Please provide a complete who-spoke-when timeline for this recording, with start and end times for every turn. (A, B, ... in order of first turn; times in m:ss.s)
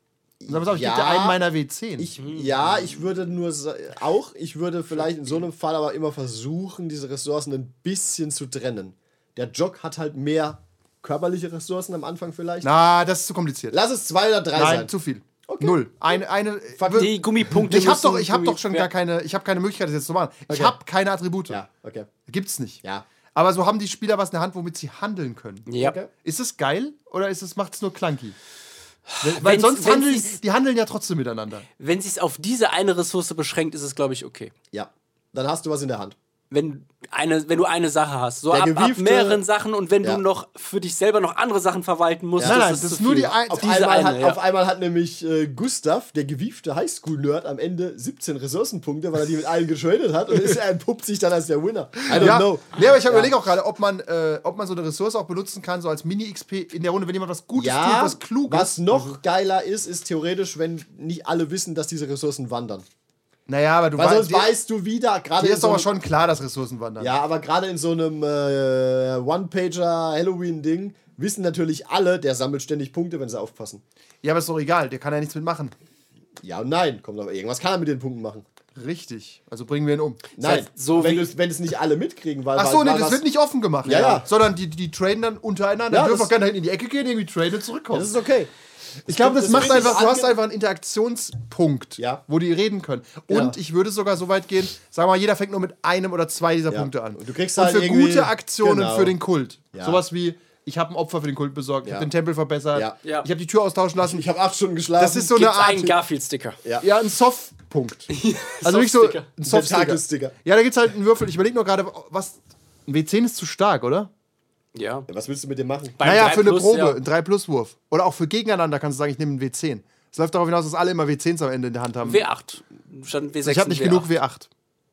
0:00.4-0:01.4 A
0:00.5-0:02.1 B
0:02.0-0:12.7 A
0:02.2-0:02.7 C
0:12.6-0:13.8 B
0:13.7-0:14.9 A
0:14.5-0:21.6 B
0:15.5-0:16.1 A
0:16.8-0:17.2 A
0:16.9-0:18.9 C
0:20.5-0:20.8 A
0:21.5-0:22.1 A
0:22.3-0:22.8 B
0:23.4-0:25.7 B
0:25.7-0:26.0 C
0:25.8-0:26.1 A
0:26.2-0:28.4 B
0:29.1-0:30.4 C
0:29.2-0:31.7 B
0:31.8-0:34.5 C
0:34.7-0:36.2 A
0:36.5-0:44.4 C
0:38.5-0:39.4 A
0:42.4-0:42.6 A
0:42.4-0:43.9 B
0:43.5-0:53.3 A
0:52.1-0:59.1 B
0:57.6-1:02.9 A
1:03.5-1:04.5 B
1:04.0-1:05.9 A
1:05.4-1:07.1 B
1:07.0-1:13.8 A
1:14.2-1:15.7 B
1:16.4-1:18.4 A
1:18.8-1:20.7 B
1:20.4-1:23.2 A
1:20.4-1:21.3 C
1:22.6-1:28.1 B
1:23.8-1:24.3 A
1:23.9-1:24.2 C
1:25.9-1:26.3 A
1:27.9-1:28.5 A
1:29.1-1:30.4 A
1:29.1-1:44.2 B
1:33.3-1:33.6 A
1:36.7-1:39.2 A
1:39.7-1:40.0 A
1:44.1-1:46.0 A
1:45.0-1:45.9 B
1:45.3-1:46.6 C
1:46.8-1:48.1 B
1:48.1-1:49.3 C
1:48.6-1:54.1 B
1:49.4-1:50.3 A
1:54.8-1:55.1 C
1:55.1-1:56.1 A
1:56.0-1:57.0 C
1:56.0-2:02.2 B
2:02.0-2:04.1 C
2:03.4-2:04.5 B